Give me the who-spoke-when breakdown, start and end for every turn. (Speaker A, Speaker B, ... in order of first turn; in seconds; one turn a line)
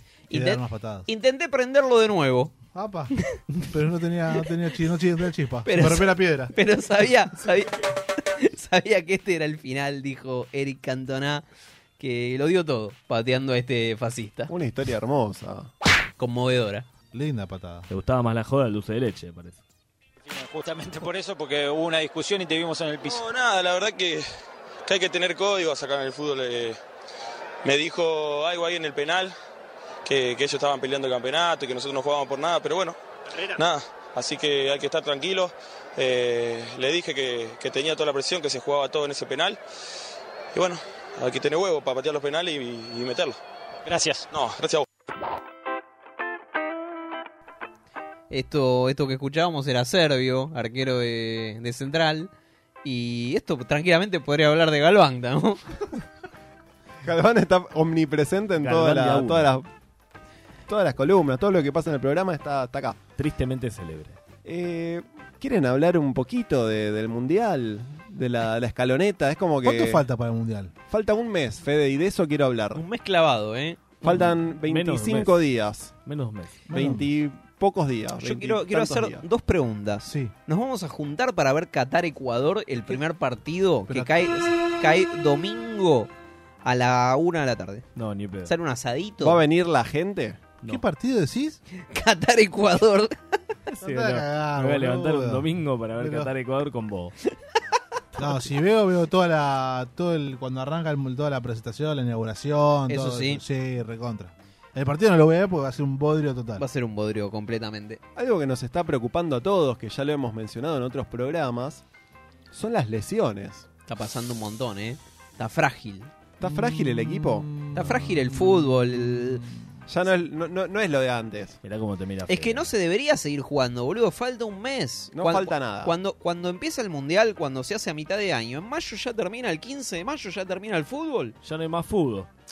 Speaker A: 0.3-2.5
Speaker B: 0.3-1.1
Speaker B: 2.7-3.1
Speaker B: 3.7-6.5
Speaker A: 5.7-11.4
Speaker A: 12.0-14.5
Speaker C: 14.5-15.7
Speaker A: 16.2-16.9
Speaker B: 17.1-17.9
Speaker D: 17.9-19.6
Speaker E: 20.2-23.3
Speaker F: 23.0-24.3
Speaker F: 24.9-26.8
Speaker F: 27.6-29.3
Speaker F: 30.0-33.0
Speaker F: 33.5-39.6
Speaker F: 40.5-43.4
Speaker E: 43.8-44.3
Speaker F: 44.3-44.9
Speaker A: 48.3-52.3
Speaker A: 52.8-55.6
Speaker C: 57.0-59.7
Speaker D: 58.6-59.5
Speaker C: 60.7-63.0
Speaker D: 63.2-64.2
Speaker C: 64.4-70.0
Speaker B: 69.6-70.7
Speaker C: 70.9-72.8
Speaker A: 72.7-73.8
Speaker C: 74.0-75.9
Speaker D: 74.0-75.4
Speaker D: 76.0-76.7
Speaker B: 76.7-77.1
Speaker C: 76.7-79.2
Speaker A: 78.2-86.1
Speaker B: 80.0-80.3
Speaker B: 83.9-84.1
Speaker A: 86.6-87.8
Speaker D: 88.0-88.5
Speaker A: 88.4-89.4
Speaker C: 89.2-90.4
Speaker B: 90.6-91.6
Speaker A: 91.7-93.2
Speaker D: 93.7-97.1
Speaker B: 93.8-96.3
Speaker B: 98.2-106.6
Speaker A: 102.9-103.4
Speaker A: 106.6-108.0
Speaker C: 108.2-111.8
Speaker C: 112.5-113.7
Speaker A: 113.9-116.1
Speaker C: 116.4-117.5
Speaker B: 116.4-119.7
Speaker A: 117.7-119.4
Speaker C: 119.9-121.6
Speaker D: 121.6-122.7
Speaker A: 122.3-131.3
Speaker C: 125.1-125.9
Speaker D: 131.4-132.3